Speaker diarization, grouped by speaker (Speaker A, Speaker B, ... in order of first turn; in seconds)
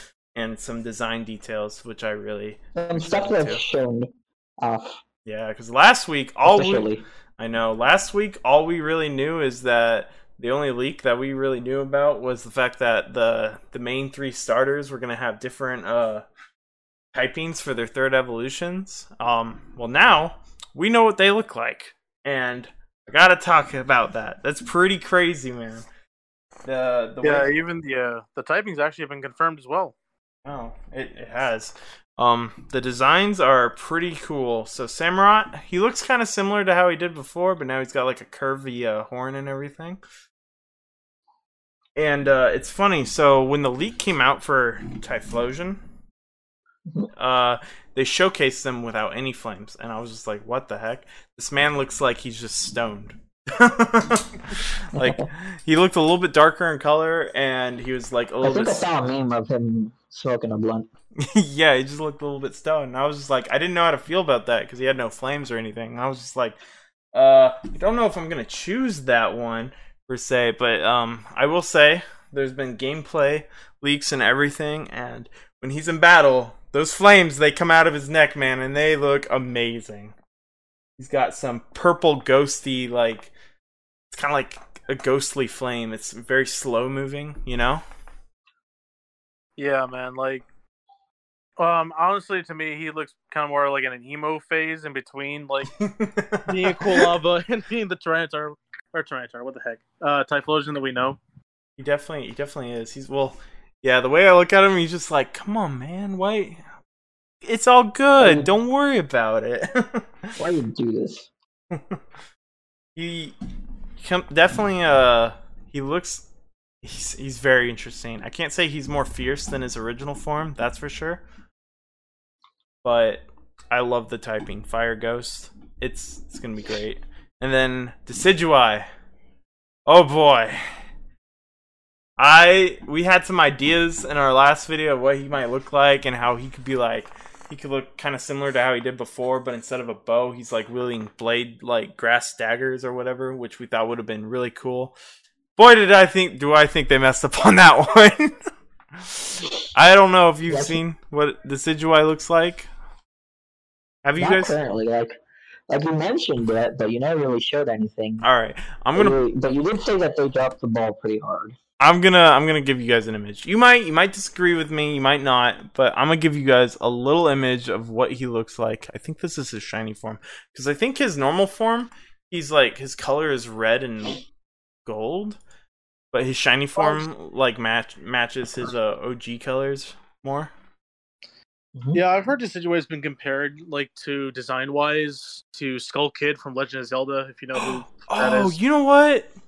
Speaker A: 0.3-3.6, 5.2-16.2, 17.1-25.9, 26.6-27.5, 30.4-40.0, 42.0-45.8, 47.1-58.9, 61.2-66.6, 67.1-80.1, 81.0-83.3, 84.1-87.8, 95.7-97.1, 101.8-106.7, 107.4-110.4, 111.7-112.0, 113.0-113.3, 114.0-116.2, 116.8-121.2, 122.8-128.9, 129.9-130.8, 132.2-144.9, 145.6-148.3, 148.9-152.7, 154.0-154.6, 158.2-159.2, 161.8-174.2, 174.8-175.4, 176.1-180.5, 187.5-189.3
Speaker B: 2.7-5.0, 6.5-7.0, 55.0-55.2, 58.4-60.9, 108.2-108.5, 110.4-111.3, 150.5-150.8, 154.2-158.2, 158.9-161.6, 181.7-182.0
Speaker C: 27.2-29.9, 89.6-90.4, 91.6-95.7, 96.5-101.2, 176.8-177.0, 181.9-188.6